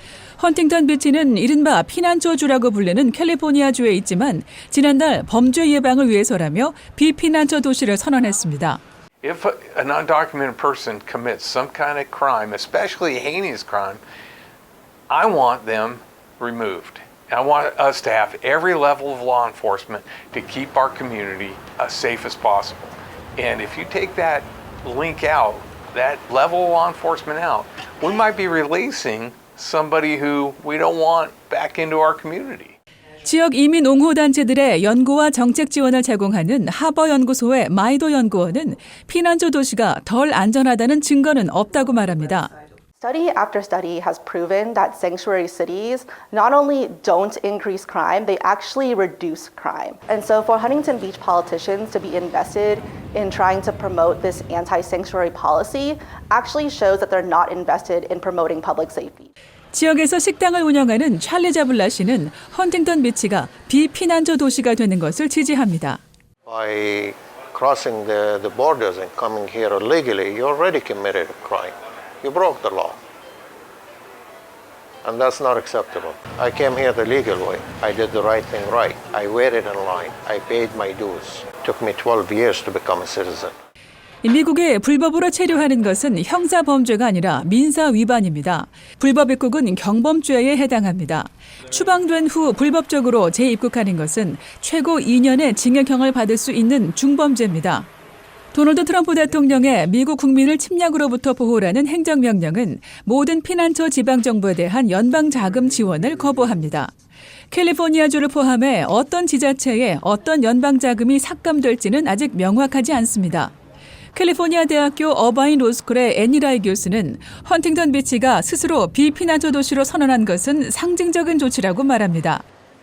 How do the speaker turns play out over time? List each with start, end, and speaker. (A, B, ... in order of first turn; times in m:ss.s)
0:00.4-0:08.8 A
0:09.2-0:14.0 B
0:15.1-0:32.8 B
0:33.2-0:42.5 A
0:43.0-0:59.3 C
0:59.7-1:06.0 A
1:06.5-1:13.0 D
1:15.0-1:23.6 D
1:24.2-1:37.9 A
1:38.5-1:46.9 A
1:47.5-1:53.5 A
1:54.1-2:02.4 A